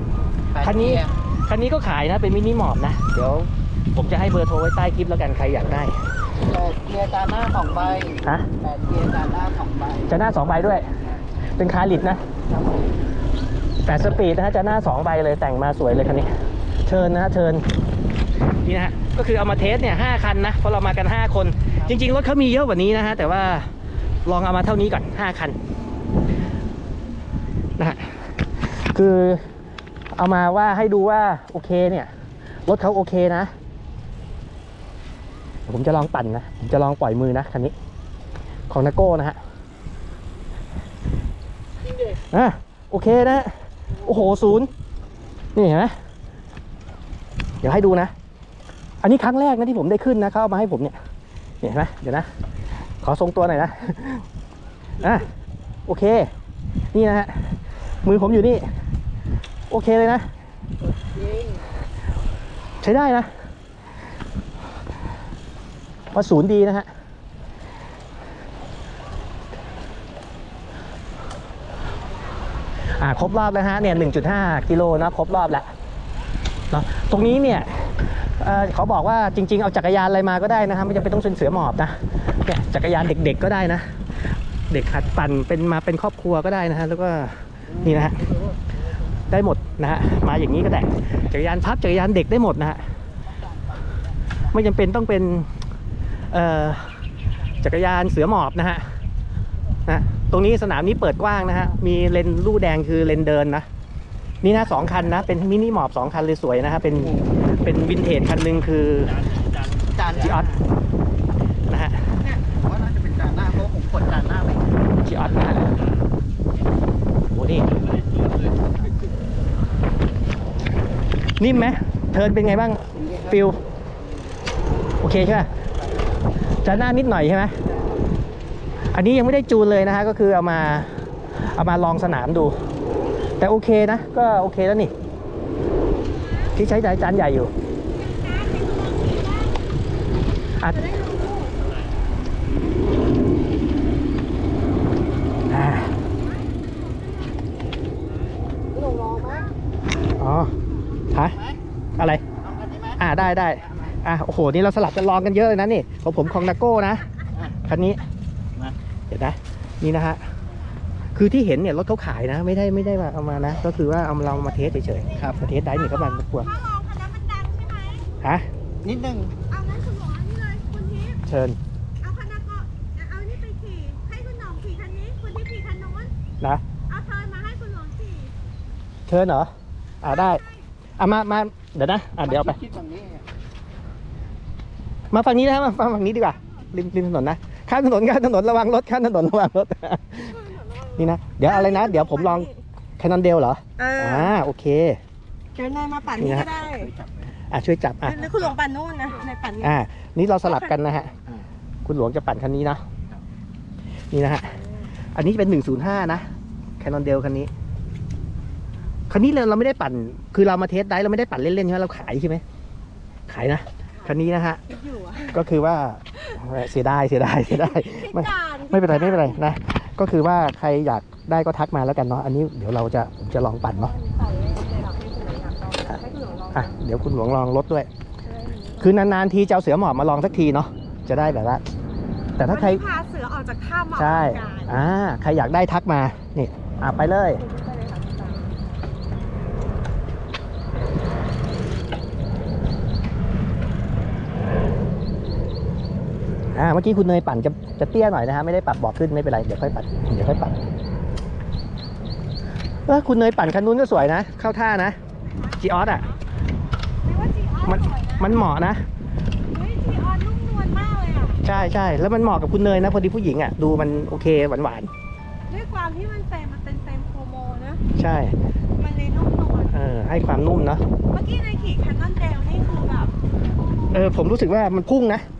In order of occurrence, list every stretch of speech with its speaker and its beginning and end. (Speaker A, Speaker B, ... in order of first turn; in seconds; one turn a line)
Speaker A: 0.6-6.0
Speaker B: 6.5-10.1
Speaker A: 8.2-8.5
Speaker A: 10.1-10.9
Speaker A: 11.6-12.2
Speaker A: 13.8-16.3
Speaker A: 16.8-17.7
Speaker A: 18.6-23.7
Speaker A: 24.2-25.6
Speaker A: 27.8-29.4
Speaker A: 30.1-32.1
Speaker A: 32.6-33.5
Speaker A: 35.7-37.7
Speaker A: 38.7-39.4
Speaker A: 42.2-44.7
Speaker A: 45.5-45.9
Speaker A: 47.6-48.1
Speaker A: 49.0-51.0
Speaker A: 51.6-52.3
Speaker A: 53.0-54.2
Speaker A: 55.0-55.3
Speaker A: 55.9-56.3
Speaker A: 56.9-58.7
Speaker A: 59.7-60.3
Speaker B: 61.1-61.5
Speaker A: 62.8-63.3
Speaker A: 66.1-66.9
Speaker A: 72.8-75.7
Speaker A: 76.7-84.0
Speaker A: 84.7-88.2
Speaker A: 89.3-92.8
Speaker A: 94.5-95.5
Speaker A: 96.3-97.0
Speaker A: 97.6-98.9
Speaker A: 99.8-103.7
Speaker A: 104.4-109.4
Speaker A: 110.0-110.6
Speaker A: 111.7-112.1
Speaker B: 112.3-114.8
Speaker A: 115.0-115.8
Speaker A: 117.3-117.8
Speaker A: 121.4-123.6
Speaker A: 125.0-125.5
Speaker A: 126.5-127.5
Speaker A: 128.9-132.5
Speaker A: 133.4-134.9
Speaker C: 136.0-136.5
Speaker A: 136.5-137.5
Speaker C: 137.8-139.7
Speaker C: 140.6-141.8
Speaker A: 145.5-145.9
Speaker C: 146.0-147.9
Speaker B: 148.7-149.3
Speaker C: 148.9-149.5
Speaker A: 150.2-150.5
Speaker A: 151.1-151.4
Speaker A: 152.0-152.2
Speaker A: 152.8-158.0
Speaker A: 159.1-160.3
Speaker A: 161.1-166.5
Speaker C: 166.4-168.2
Speaker A: 168.2-168.4
Speaker B: 168.8-169.4
Speaker C: 169.4-171.2
Speaker A: 171.2-171.6
Speaker C: 172.0-176.1
Speaker C: 176.9-178.3
Speaker A: 179.1-179.5
Speaker A: 180.0-180.4
Speaker C: 180.1-180.7
Speaker A: 181.0-182.7
Speaker B: 182.6-183.2
Speaker A: 185.1-195.0
Speaker C: 190.4-192.6
Speaker C: 193.8-194.4
Speaker C: 195.5-196.9
Speaker A: 196.1-196.5
Speaker A: 197.5-198.4
Speaker C: 198.1-199.8
Speaker A: 199.6-201.1
Speaker C: 200.4-200.8
Speaker A: 201.8-202.8
Speaker A: 204.1-204.6
Speaker A: 205.1-206.2
Speaker A: 206.8-207.5
Speaker A: 209.1-212.4
Speaker A: 213.3-214.6
Speaker C: 214.0-215.3
Speaker A: 215.2-223.9
Speaker C: 217.5-219.4
Speaker C: 223.8-226.7
Speaker A: 226.5-227.9
Speaker C: 228.2-228.9
Speaker A: 228.8-231.6
Speaker A: 232.4-232.8
Speaker C: 232.4-234.7
Speaker A: 233.9-237.4
Speaker C: 237.4-238.5
Speaker A: 246.5-250.6
Speaker A: 252.8-255.0
Speaker C: 255.2-256.2
Speaker A: 255.6-256.1
Speaker C: 257.0-258.4
Speaker A: 257.7-258.8
Speaker C: 259.5-261.4
Speaker A: 261.4-264.9
Speaker C: 265.5-267.8
Speaker A: 267.9-268.4
Speaker C: 268.8-269.7
Speaker A: 269.7-270.8
Speaker C: 271.1-273.1
Speaker A: 273.9-275.2